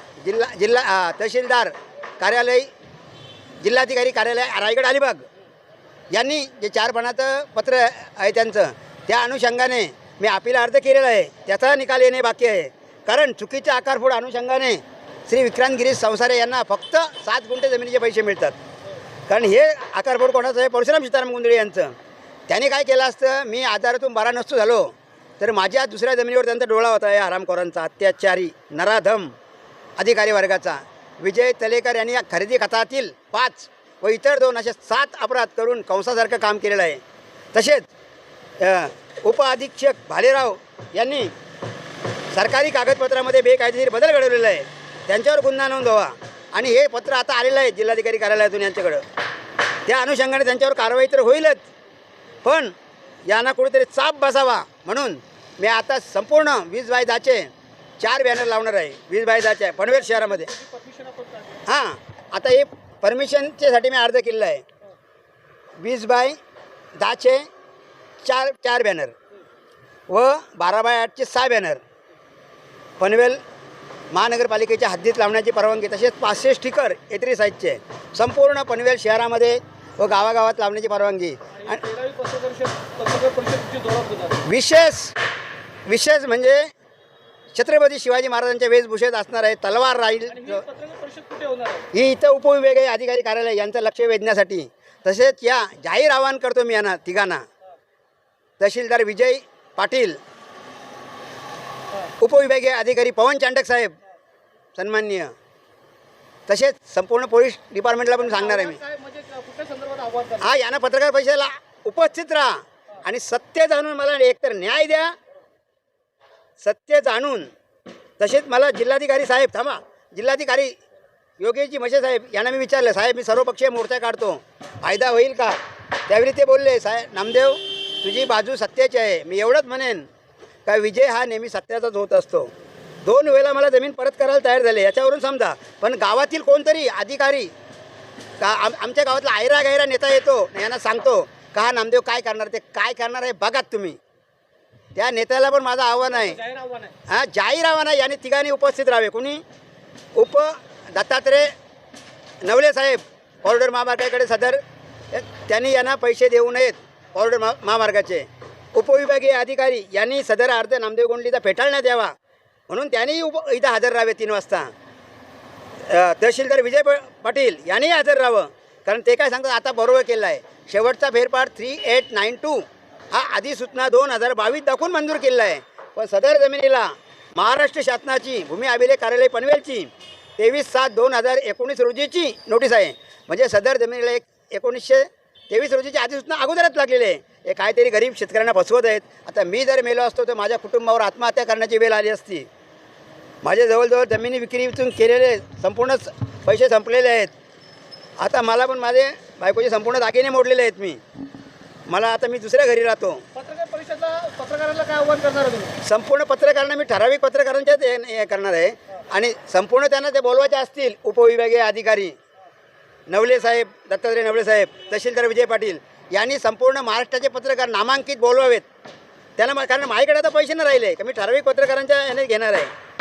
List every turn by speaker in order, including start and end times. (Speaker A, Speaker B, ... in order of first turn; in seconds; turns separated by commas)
Speaker A: 0.2-2.7, Speaker A: 3.6-5.2, Speaker A: 6.1-18.6, Speaker A: 19.3-21.9, Speaker A: 22.5-29.3, Speaker A: 30.0-37.0, Speaker A: 37.5-37.9, Speaker A: 38.6-41.3, Speaker A: 42.3-49.0, Speaker A: 49.9-51.7, Speaker A: 52.4-52.7, Speaker A: 53.3-60.5, Speaker B: 60.1-61.6, Speaker A: 61.7-64.6, Speaker A: 65.8-66.4, Speaker A: 67.0-67.4, Speaker A: 68.2-69.1, Speaker A: 70.1-71.8, Speaker A: 73.0-73.4, Speaker A: 74.1-81.8, Speaker B: 81.6-84.4, Speaker A: 84.5-85.1, Speaker A: 85.9-86.7, Speaker A: 87.5-90.6, Speaker B: 90.3-91.8, Speaker A: 91.9-97.4, Speaker A: 98.6-100.2, Speaker A: 102.2-103.9, Speaker A: 104.8-105.3, Speaker A: 106.5-108.8, Speaker B: 108.3-110.4, Speaker A: 110.4-115.1, Speaker A: 116.6-117.5, Speaker A: 118.2-120.8, Speaker A: 121.4-125.6, Speaker A: 126.1-130.1, Speaker A: 130.7-132.5, Speaker A: 133.0-137.5, Speaker A: 138.4-144.0, Speaker A: 145.0-146.4, Speaker B: 146.2-146.9, Speaker A: 147.1-149.4, Speaker A: 150.2-151.5, Speaker A: 152.4-154.6, Speaker A: 155.1-162.1, Speaker A: 162.7-164.7, Speaker A: 165.9-192.5, Speaker A: 193.4-197.3, Speaker A: 198.2-201.0, Speaker A: 201.9-203.2, Speaker B: 203.4-205.8, Speaker A: 205.8-212.2, Speaker A: 213.1-218.7, Speaker A: 219.4-222.7